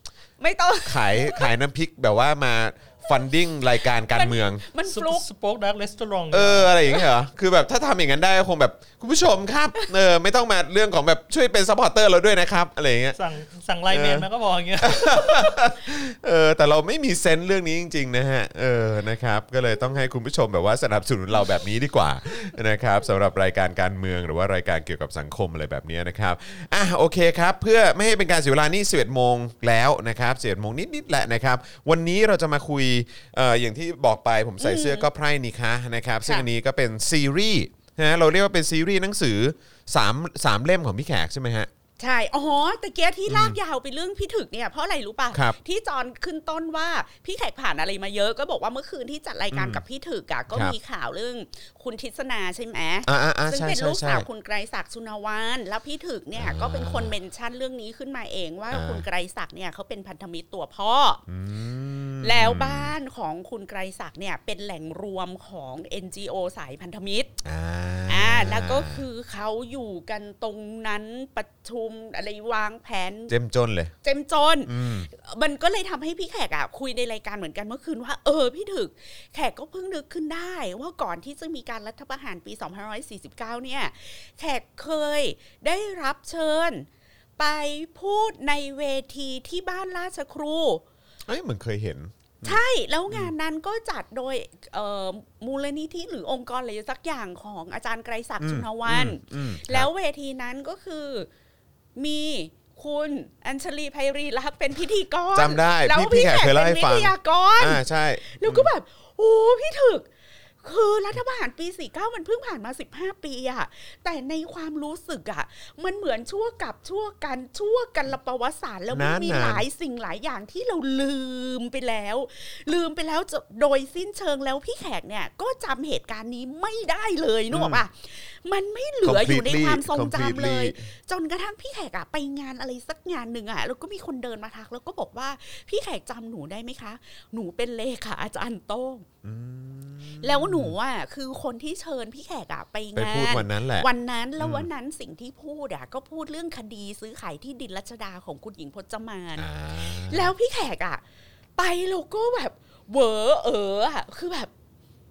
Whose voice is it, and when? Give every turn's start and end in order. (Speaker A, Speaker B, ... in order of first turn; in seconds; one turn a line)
Speaker A: 0.4-1.5
Speaker B: 0.8-4.6
Speaker A: 4.0-5.2
Speaker C: 4.8-6.8
Speaker B: 6.3-13.2
Speaker C: 13.2-15.7
Speaker B: 13.9-14.3
Speaker B: 14.8-41.7
Speaker A: 34.6-35.0
Speaker A: 42.0-61.2
Speaker B: 43.3-43.5
Speaker B: 49.5-49.8
Speaker B: 53.1-54.2
Speaker B: 56.4-57.1
Speaker B: 58.7-59.0
Speaker B: 61.3-62.9
Speaker A: 62.2-67.3
Speaker B: 67.4-69.0
Speaker A: 68.1-73.3
Speaker B: 73.3-73.9
Speaker A: 74.0-90.8
Speaker B: 74.7-75.1
Speaker B: 91.3-93.3
Speaker A: 92.4-101.3
Speaker B: 98.4-99.9
Speaker A: 102.0-110.1
Speaker B: 105.3-108.7
Speaker A: 110.6-139.1
Speaker B: 118.9-119.6
Speaker B: 127.5-127.8
Speaker B: 129.0-130.9
Speaker B: 139.2-140.7
Speaker A: 140.2-149.5
Speaker B: 142.9-143.9
Speaker B: 144.4-144.7
Speaker B: 149.4-150.3
Speaker A: 150.0-151.0
Speaker A: 151.6-154.5